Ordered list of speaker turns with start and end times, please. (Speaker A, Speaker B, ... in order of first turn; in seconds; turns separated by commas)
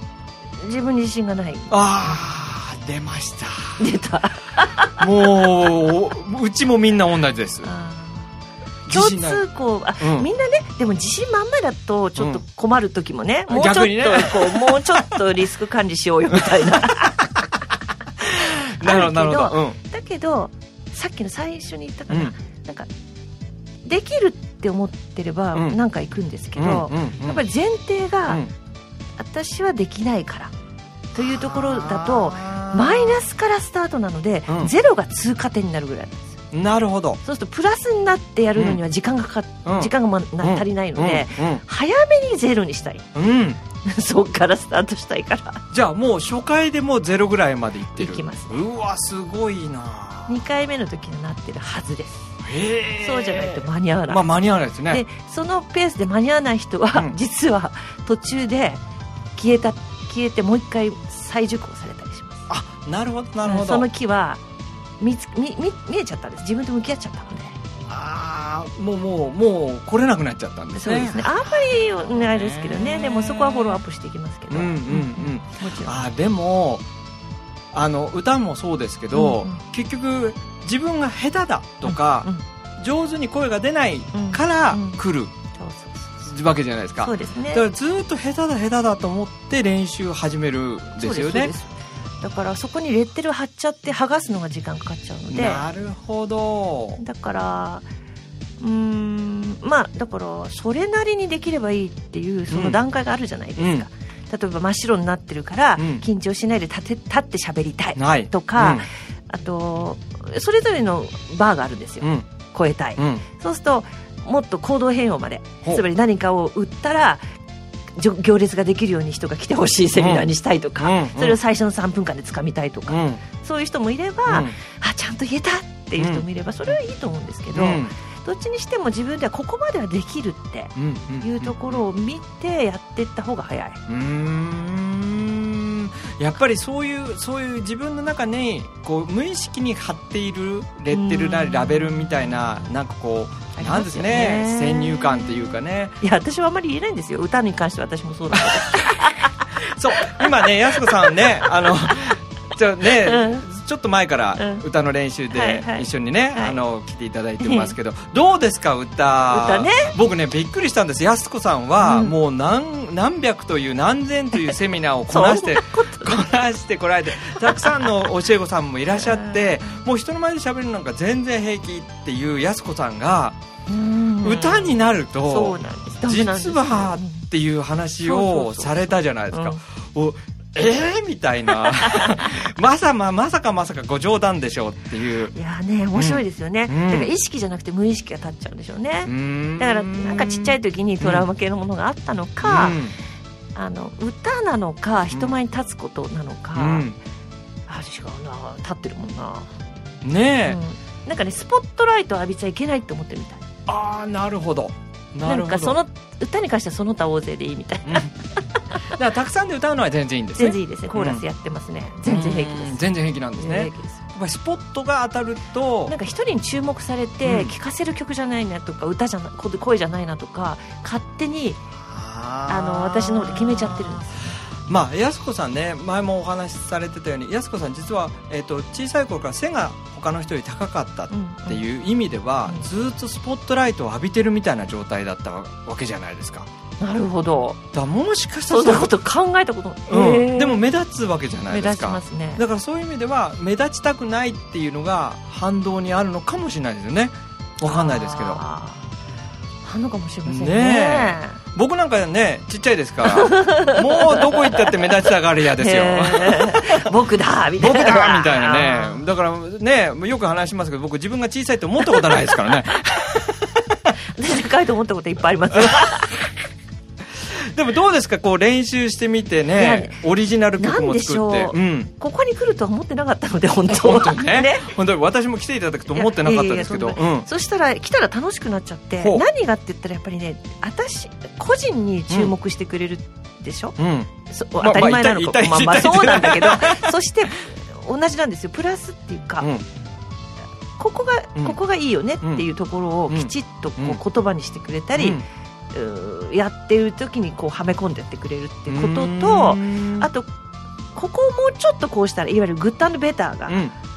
Speaker A: 0.6-2.1, Speaker B: 1.7-3.9, Speaker A: 3.8-5.3, Speaker B: 5.0-7.7, Speaker A: 7.6-8.3, Speaker B: 8.9-9.4, Speaker A: 8.9-17.2, Speaker B: 10.0-10.3, Speaker B: 13.5-15.0, Speaker B: 16.3-17.5, Speaker B: 18.2-19.8, Speaker A: 18.8-22.9, Speaker A: 23.9-28.4, Speaker B: 25.5-25.8, Speaker B: 26.6-27.4, Speaker A: 29.2-30.5, Speaker A: 31.1-36.4, Speaker B: 31.2-33.2, Speaker B: 36.5-37.2, Speaker A: 37.2-43.1, Speaker B: 39.6-39.9, Speaker B: 40.4-41.6, Speaker B: 43.1-43.6, Speaker A: 43.8-45.6, Speaker B: 45.7-50.4, Speaker A: 48.0-48.6, Speaker A: 50.3-52.4, Speaker B: 52.4-55.0, Speaker A: 53.0-54.2, Speaker A: 54.9-58.8, Speaker A: 59.4-62.5, Speaker B: 62.5-63.9, Speaker A: 63.5-64.4, Speaker A: 65.0-67.6, Speaker B: 67.9-73.8, Speaker A: 70.8-76.0, Speaker B: 74.5-76.9, Speaker B: 77.7-85.3, Speaker A: 79.1-79.6, Speaker A: 81.8-82.4, Speaker A: 84.1-85.0, Speaker A: 85.6-86.3, Speaker B: 86.3-91.5, Speaker A: 87.0-87.6, Speaker A: 91.0-95.6, Speaker B: 95.3-97.0, Speaker A: 97.0-97.8, Speaker A: 98.6-117.2, Speaker B: 102.5-102.8, Speaker B: 103.6-103.9, Speaker B: 105.8-106.0, Speaker B: 108.0-108.9, Speaker B: 112.0-112.3, Speaker B: 113.0-113.2, Speaker A: 118.0-133.8, Speaker B: 120.0-120.3, Speaker B: 120.8-121.4, Speaker B: 122.9-123.2, Speaker B: 124.3-124.5, Speaker B: 126.0-126.2, Speaker B: 127.5-127.9, Speaker B: 130.8-131.8, Speaker B: 133.9-146.0, Speaker A: 140.9-142.2, Speaker A: 143.6-149.5, Speaker B: 148.3-149.1, Speaker B: 149.7-173.4, Speaker A: 150.0-152.0, Speaker A: 153.0-153.4, Speaker A: 154.4-154.6, Speaker A: 155.3-156.6, Speaker A: 157.4-157.8, Speaker A: 159.3-159.9, Speaker A: 161.8-162.2, Speaker A: 165.1-166.3, Speaker A: 167.5-167.9, Speaker A: 168.9-169.8, Speaker A: 173.7-177.2, Speaker B: 174.2-185.3, Speaker A: 178.1-179.6, Speaker A: 181.6-182.4, Speaker A: 185.3-192.8, Speaker B: 185.9-187.1, Speaker B: 189.1-191.2, Speaker B: 192.4-192.9, Speaker A: 193.6-196.8, Speaker B: 196.6-197.0, Speaker A: 197.7-199.5, Speaker B: 200.0-200.6, Speaker A: 200.5-203.4, Speaker B: 203.7-205.8, Speaker A: 205.3-208.1, Speaker B: 207.9-208.1, Speaker B: 208.9-211.2, Speaker A: 210.4-212.8, Speaker B: 212.1-215.9, Speaker A: 213.4-214.0, Speaker A: 215.9-221.6, Speaker B: 217.2-217.5, Speaker B: 221.8-236.5, Speaker A: 222.5-224.2, Speaker A: 231.1-231.6, Speaker A: 236.8-237.6, Speaker B: 237.7-238.9, Speaker A: 238.5-240.6, Speaker B: 239.9-248.4, Speaker A: 241.5-242.4, Speaker A: 247.7-248.8, Speaker A: 249.7-251.4, Speaker B: 250.3-256.9, Speaker A: 253.0-255.1, Speaker A: 255.6-259.1, Speaker B: 257.6-263.9, Speaker A: 261.9-262.1, Speaker A: 264.1-266.3, Speaker B: 265.5-266.1, Speaker B: 267.1-271.9, Speaker A: 269.6-270.0, Speaker A: 270.6-274.8, Speaker B: 273.7-277.3, Speaker A: 275.9-283.8, Speaker B: 279.0-279.2, Speaker B: 283.8-284.1, Speaker A: 284.3-289.5, Speaker B: 284.6-286.9, Speaker A: 290.8-295.2, Speaker B: 293.1-294.0, Speaker B: 295.0-295.2, Speaker A: 295.7-300.3, Speaker B: 298.7-300.1, Speaker A: 300.9-303.6, Speaker B: 303.5-303.7